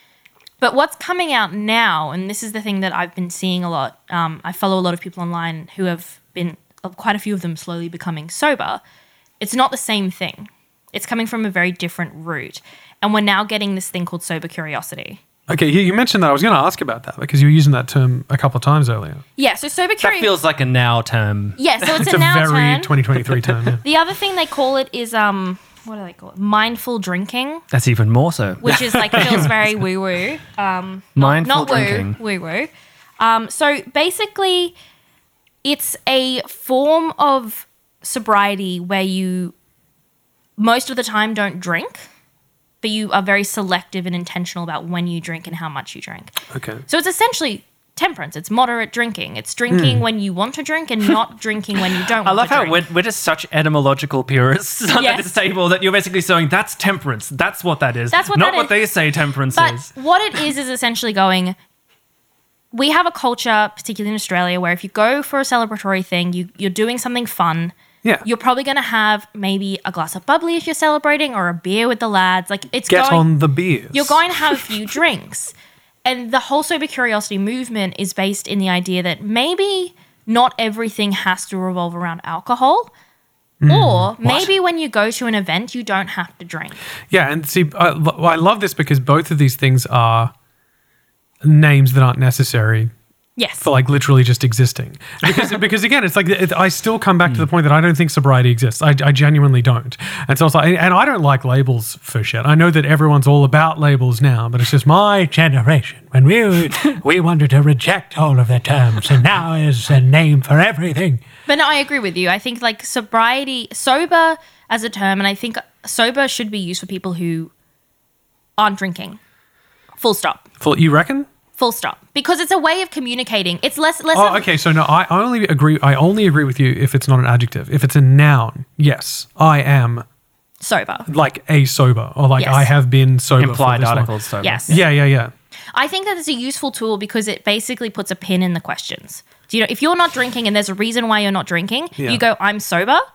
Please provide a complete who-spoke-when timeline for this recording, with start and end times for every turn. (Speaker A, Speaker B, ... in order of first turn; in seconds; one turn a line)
Speaker A: 0.6-8.8
Speaker A: 9.4-15.2
Speaker B: 15.5-19.2
Speaker A: 19.4-20.3
Speaker C: 20.0-22.0
Speaker A: 21.6-23.0
Speaker B: 22.0-23.8
Speaker A: 23.8-27.6
Speaker C: 27.7-29.6
Speaker A: 28.6-34.8
Speaker B: 28.6-29.5
Speaker C: 31.1-32.2
Speaker A: 35.6-39.5
Speaker A: 40.6-42.0
Speaker A: 42.8-46.3
Speaker B: 46.5-46.8
Speaker A: 46.9-52.8
Speaker B: 49.7-50.0
Speaker C: 52.2-59.9
Speaker A: 55.0-55.3
Speaker A: 58.1-58.8
Speaker A: 59.5-61.5
Speaker A: 62.7-67.7
Speaker A: 68.2-73.3
Speaker B: 72.9-74.7
Speaker A: 73.9-75.5
Speaker A: 76.0-82.9
Speaker B: 83.6-84.5
Speaker A: 83.7-86.8
Speaker B: 87.1-90.3
Speaker B: 91.4-92.9
Speaker A: 93.4-93.7
Speaker B: 93.6-111.2
Speaker A: 111.5-117.5
Speaker A: 118.6-119.2
Speaker A: 120.0-120.5
Speaker B: 120.6-121.3
Speaker A: 121.6-124.5
Speaker B: 124.1-130.0
Speaker A: 130.6-131.1
Speaker B: 131.1-134.1
Speaker A: 132.4-132.7
Speaker C: 133.4-134.8
Speaker A: 134.4-134.8
Speaker B: 134.7-135.3
Speaker A: 135.7-143.0
Speaker B: 142.0-142.2